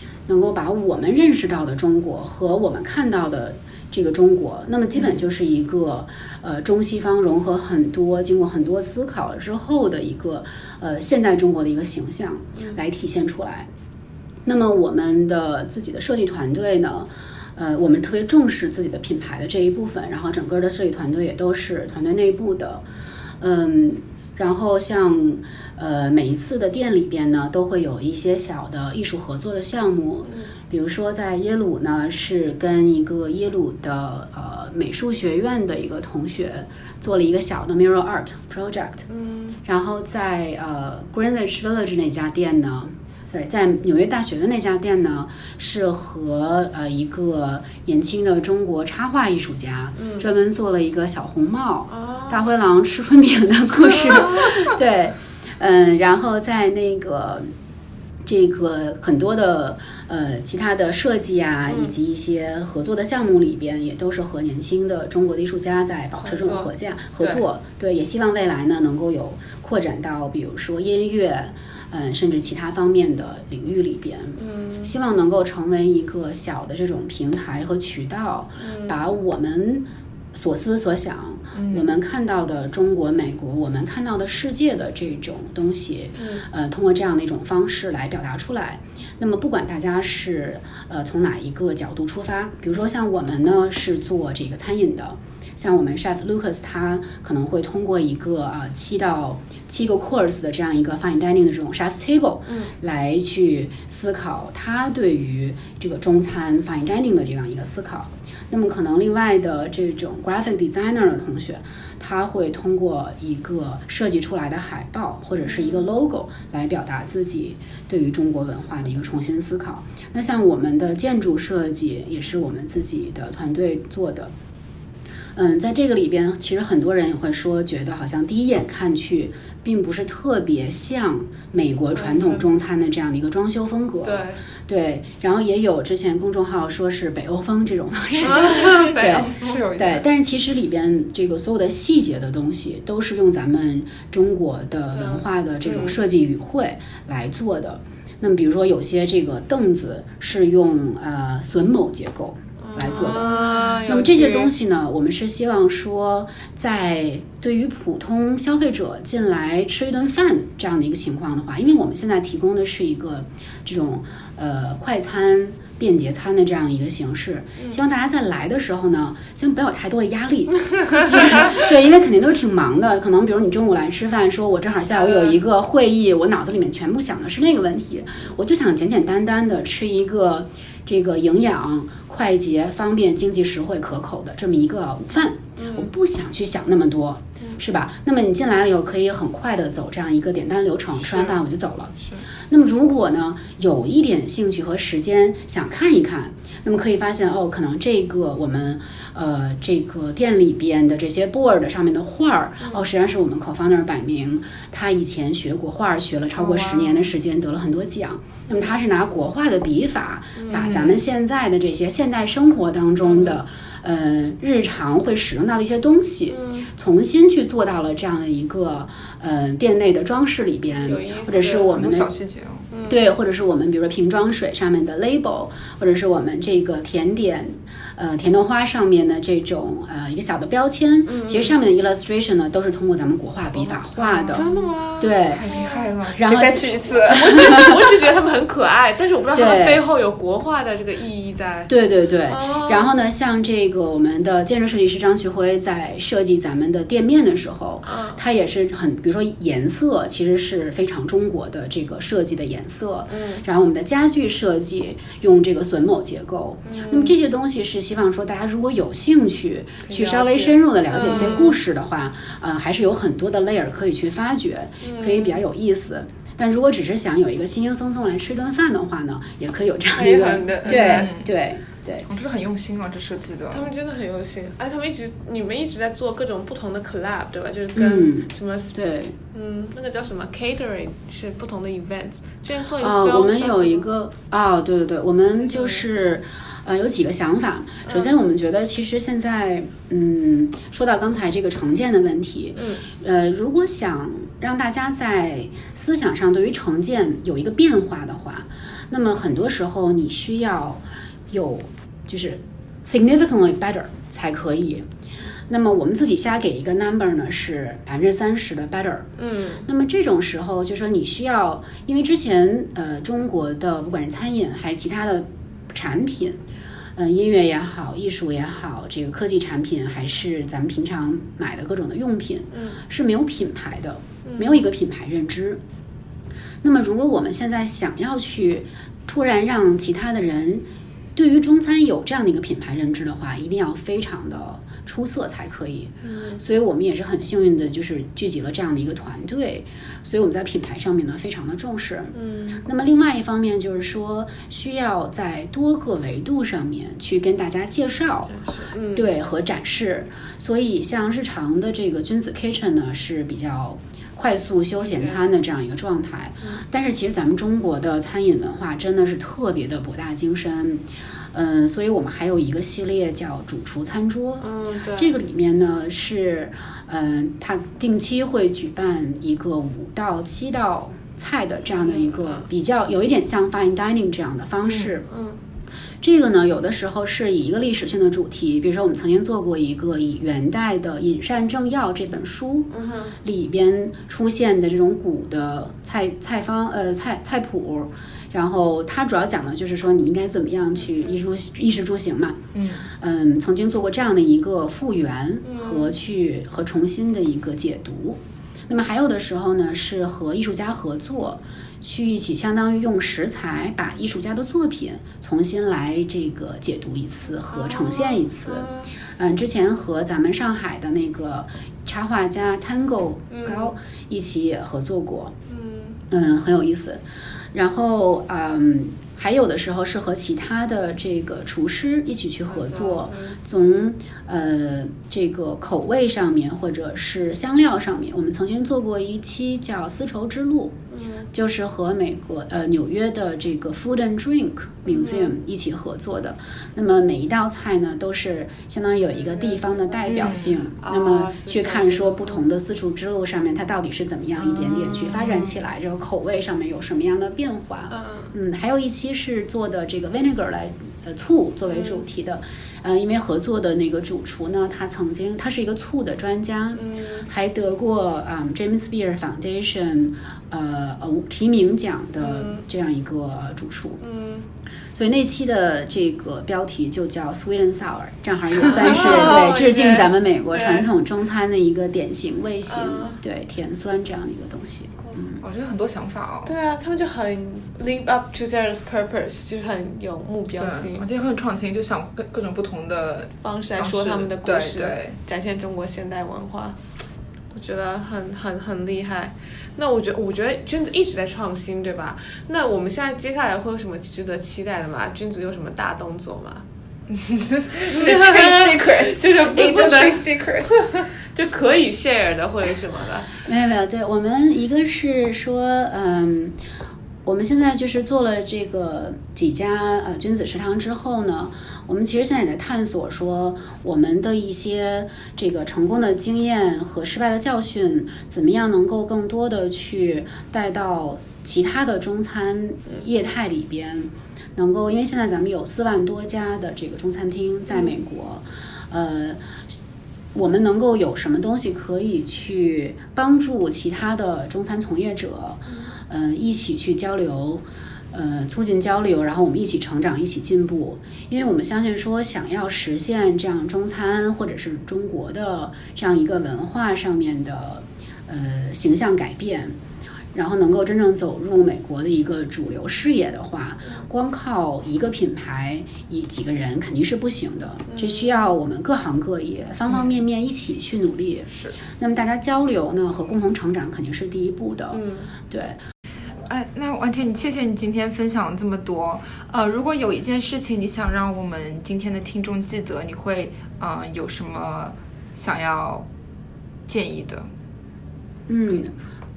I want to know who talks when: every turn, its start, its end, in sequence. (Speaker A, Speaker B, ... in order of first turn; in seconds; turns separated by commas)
Speaker A: 0.3-13.7, Speaker A: 14.4-22.8, Speaker A: 23.4-39.1, Speaker B: 39.1-39.6, Speaker A: 39.6-57.5, Speaker B: 50.0-50.2, Speaker B: 51.9-52.5, Speaker A: 58.2-124.3, Speaker B: 61.7-61.9, Speaker B: 66.2-67.4, Speaker B: 74.4-74.9, Speaker B: 78.6-79.0, Speaker B: 86.2-86.4, Speaker A: 125.3-192.0, Speaker B: 131.9-132.4, Speaker B: 134.0-134.4, Speaker B: 138.2-139.6, Speaker C: 138.3-140.0, Speaker B: 144.9-146.0, Speaker B: 152.6-154.5, Speaker B: 175.0-175.3, Speaker B: 185.6-185.9, Speaker A: 192.5-222.1, Speaker B: 210.4-210.7, Speaker C: 210.6-211.0, Speaker B: 213.1-213.4, Speaker B: 216.3-216.7, Speaker B: 220.8-221.7, Speaker C: 221.7-222.7, Speaker B: 222.7-223.0, Speaker A: 222.9-234.4, Speaker B: 231.1-231.6, Speaker C: 233.6-234.7, Speaker B: 234.3-236.0, Speaker A: 235.0-235.4, Speaker C: 235.3-237.8, Speaker A: 236.1-237.7, Speaker B: 237.0-241.7, Speaker A: 239.3-239.8, Speaker A: 241.7-272.1, Speaker B: 242.3-242.9, Speaker B: 247.8-248.2, Speaker B: 253.1-253.4, Speaker B: 256.6-257.1, Speaker B: 259.9-261.6, Speaker B: 264.8-265.4, Speaker B: 269.9-271.1, Speaker C: 270.6-271.3, Speaker C: 272.1-273.7, Speaker B: 273.5-278.7, Speaker A: 277.7-279.1, Speaker B: 279.3-283.9, Speaker A: 282.8-304.9, Speaker B: 285.5-285.8, Speaker B: 292.6-292.8, Speaker A: 305.5-309.1, Speaker B: 309.2-309.7, Speaker A: 309.6-316.4, Speaker A: 317.0-325.6, Speaker A: 326.6-348.4, Speaker B: 336.0-336.4, Speaker B: 342.1-342.6, Speaker B: 348.3-349.1, Speaker A: 348.9-375.1, Speaker B: 354.8-355.2, Speaker B: 364.4-365.2, Speaker B: 371.8-372.5, Speaker B: 375.1-375.4, Speaker A: 376.0-382.7, Speaker B: 382.7-383.1, Speaker A: 383.2-392.4, Speaker C: 392.5-392.9, Speaker A: 393.0-415.3, Speaker B: 395.4-395.9, Speaker B: 407.5-408.9, Speaker B: 413.3-413.7, Speaker B: 415.5-416.0, Speaker A: 416.1-417.0, Speaker A: 417.5-430.8, Speaker B: 422.5-423.4, Speaker B: 430.9-431.3, Speaker A: 431.3-464.0, Speaker B: 434.8-435.4, Speaker B: 439.3-440.3, Speaker C: 440.1-440.6, Speaker B: 440.8-442.4, Speaker C: 444.8-445.2, Speaker B: 447.9-448.3, Speaker B: 451.7-452.0, Speaker B: 456.8-457.3, Speaker B: 462.2-462.6, Speaker B: 464.0-464.4, Speaker A: 464.9-475.4, Speaker B: 468.7-470.9, Speaker B: 472.7-473.2, Speaker C: 475.4-476.5, Speaker B: 476.4-481.1, Speaker C: 480.6-485.2, Speaker B: 483.4-486.8, Speaker B: 487.5-496.6, Speaker C: 497.1-501.0, Speaker B: 497.9-503.3, Speaker A: 503.4-506.6, Speaker A: 507.2-529.8, Speaker A: 530.3-549.8, Speaker A: 550.3-565.8, Speaker B: 557.9-558.4, Speaker C: 561.5-561.8, Speaker B: 564.9-565.3, Speaker C: 566.5-576.0, Speaker C: 576.9-577.5, Speaker A: 578.5-578.9